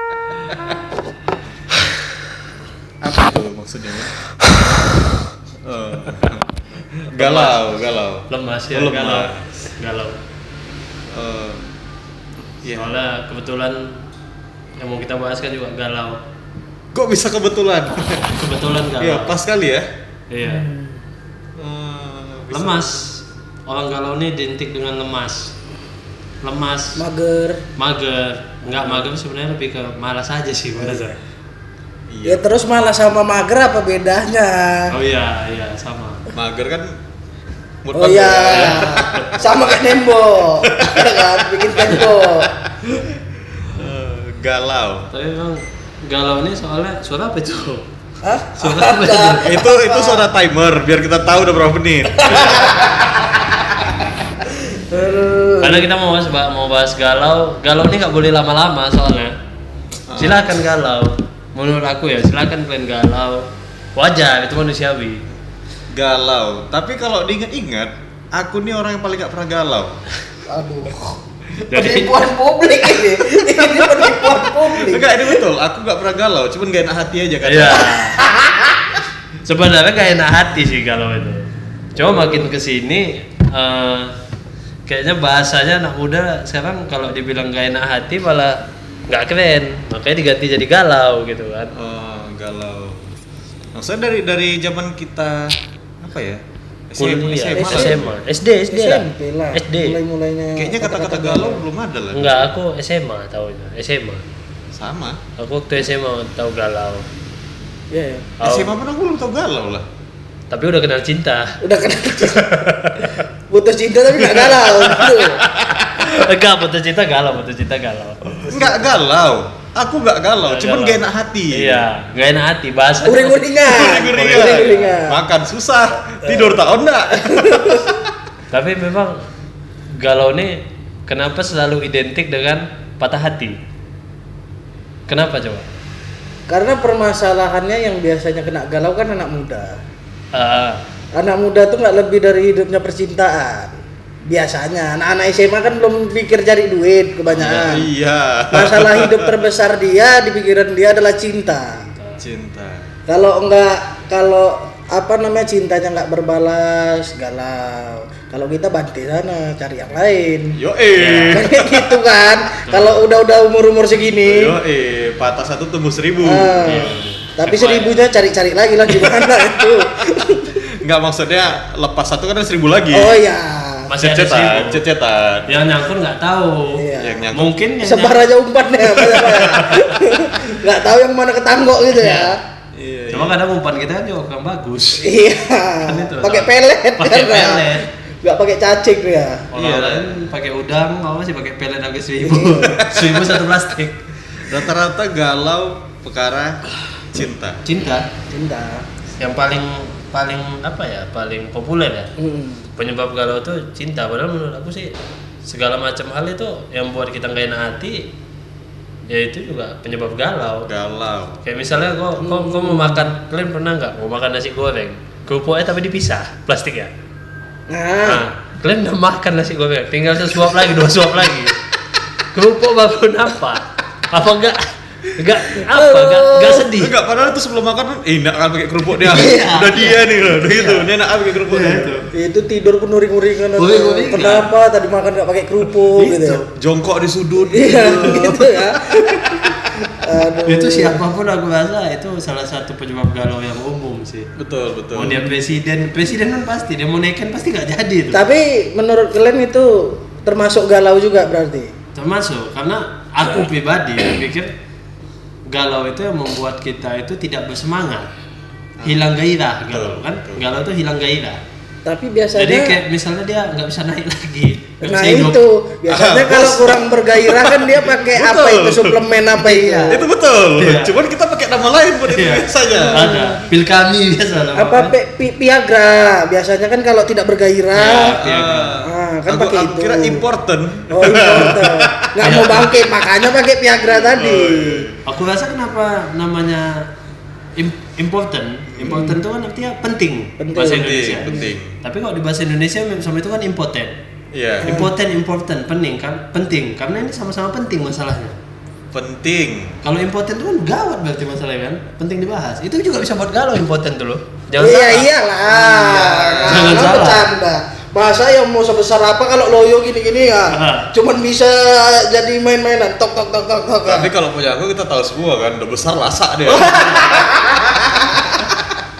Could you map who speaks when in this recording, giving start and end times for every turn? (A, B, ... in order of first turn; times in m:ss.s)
0:03.0-0:04.1 A
0:05.6-0:09.5 A
0:07.1-0:07.6 B
0:08.3-0:10.2 B
0:11.1-0:11.6 A
0:12.6-0:13.0 A
0:12.7-0:14.0 B
0:14.8-0:16.2 B
0:16.9-0:19.9 A
0:18.4-0:19.4 B
0:20.3-0:20.7 B
0:20.4-0:21.0 C
0:21.6-0:23.0 A
0:22.5-0:25.5 B
0:26.4-0:27.0 B
0:27.0-0:27.6 C
0:27.8-0:31.2 B
0:28.8-0:29.1 A
0:30.8-0:31.1 C
0:32.1-0:32.4 A
0:32.2-0:34.9 C
0:34.9-0:36.3 B
0:36.3-0:37.0 A
0:37.8-0:39.6 A
0:37.9-0:42.5 C
0:38.5-0:39.3 B
0:40.6-0:45.1 A
0:45.1-0:47.8 B
0:48.2-0:50.3 C
0:48.6-0:49.5 B
0:49.4-0:53.0 A
0:52.2-0:53.3 C
0:54.7-0:55.9 C
0:55.6-0:59.4 B
1:00.1-1:00.6 A
1:00.2-1:05.2 B
1:05.9-1:10.0 A
1:10.5-1:15.4 C
1:11.7-1:12.1 B
1:13.9-1:18.1 A
1:17.4-1:18.2 B
1:18.2-1:18.7 C
1:19.4-1:24.1 B
1:24.9-1:31.7 B
1:31.7-1:33.1 A
1:33.8-1:38.1 A
1:37.0-1:40.0 B
1:38.7-1:41.6 C
1:40.6-1:42.5 A
1:42.1-1:44.2 B
1:44.7-1:45.2 A
1:45.4-1:47.1 B
1:47.9-1:48.4 C
1:48.4-1:48.7 B
1:48.4-1:49.9 A
1:50.5-1:51.6 B
1:51.6-1:52.7 C
1:52.2-1:53.2 B
1:53.5-1:55.4 C
1:54.4-1:58.8 B
1:58.5-2:01.9 A
2:00.4-2:05.0 B
2:03.0-2:05.2 C
2:03.7-2:08.1 A
2:07.2-2:07.9 C
2:08.5-2:09.2 B
2:10.0-2:13.6 B
2:15.1-2:15.7 B
2:16.5-2:19.8 C
2:20.3-2:20.8 B
2:21.2-2:27.9 C
2:27.3-2:29.3 A
2:28.5-2:31.9 C
2:32.2-2:32.9 A
2:33.1-2:40.6 C
2:40.6-2:42.0 A
2:41.0-2:41.4 B
2:41.3-2:44.6 C
2:42.7-2:43.0 B
2:44.3-2:46.8 A
2:46.2-2:50.6 C
2:46.6-2:47.8 B
2:47.5-2:47.9 A
2:50.4-2:53.2 A
2:52.9-2:53.9 C
2:53.9-2:54.8 B
2:54.0-2:55.6 A
2:55.5-2:58.3 B
2:56.8-2:57.2 C
2:57.0-2:57.5 A
2:57.8-3:02.4 C
2:59.0-2:59.4 B
2:59.3-2:59.8 A
3:02.0-3:02.3 B
3:02.7-3:03.4 A
3:03.1-3:05.2 B
3:05.0-3:09.5 C
3:05.8-3:07.8 B
3:09.5-3:14.0 B
3:09.6-3:10.2 A
3:12.2-3:12.8 C
3:12.6-3:13.4 A
3:14.4-3:16.6 A
3:17.1-3:17.6 A
3:17.6-3:18.1 B
3:18.3-3:18.9 C
3:19.2-3:22.1 B
3:22.2-3:22.7 C
3:22.8-3:28.1 B
3:29.1-3:30.7 B
3:30.7-3:31.4 A
3:31.4-3:36.9 B
3:32.2-3:33.1 C
3:37.7-3:38.2 C
3:38.1-3:41.6 B
3:42.3-3:46.9 B
3:45.6-3:46.7 C
3:46.7-3:52.0 A
3:49.0-3:50.9 B
3:51.5-3:52.1 B
3:52.1-3:56.4 C
3:53.6-3:54.5 B
3:56.0-3:56.5 B
3:56.6-3:59.6 A
3:57.5-4:01.0 C
4:00.5-4:04.3 B
4:04.4-4:05.3 A
4:04.9-4:08.2 B
4:08.1-4:11.7 C
4:12.0-4:14.5 B
4:15.5-4:18.1 B
4:18.8-4:19.1 A
4:18.8-4:21.4 B
4:19.7-4:20.4 A
4:21.8-4:22.8 C
4:22.4-4:25.4 B
4:24.8-4:30.0 C
4:25.9-4:29.0 A
4:29.4-4:30.9 B
4:29.9-4:33.2 A
4:32.1-4:34.9 B
4:32.8-4:33.4 C
4:34.6-4:38.2 C
4:37.8-4:38.8 B
4:38.2-4:42.1 A
4:38.8-4:40.2 C
4:40.9-4:44.9 C
4:42.2-4:43.0 B
4:44.0-4:45.0 A
4:45.0-4:46.9 B
4:47.6-4:54.0 B
4:48.8-4:49.1 A
4:48.8-4:49.2 C
4:50.4-4:51.5 C
4:50.6-4:51.8 A
4:54.3-4:54.8 A
4:54.6-4:54.9 C
4:54.6-4:58.4 B
4:58.9-4:59.8 A
4:59.8-5:07.3 B
5:04.6-5:14.1 C
5:05.9-5:06.9 A
5:10.5-5:10.9 B
5:13.8-5:17.4 A
5:16.5-5:18.2 C
5:18.4-5:18.6 A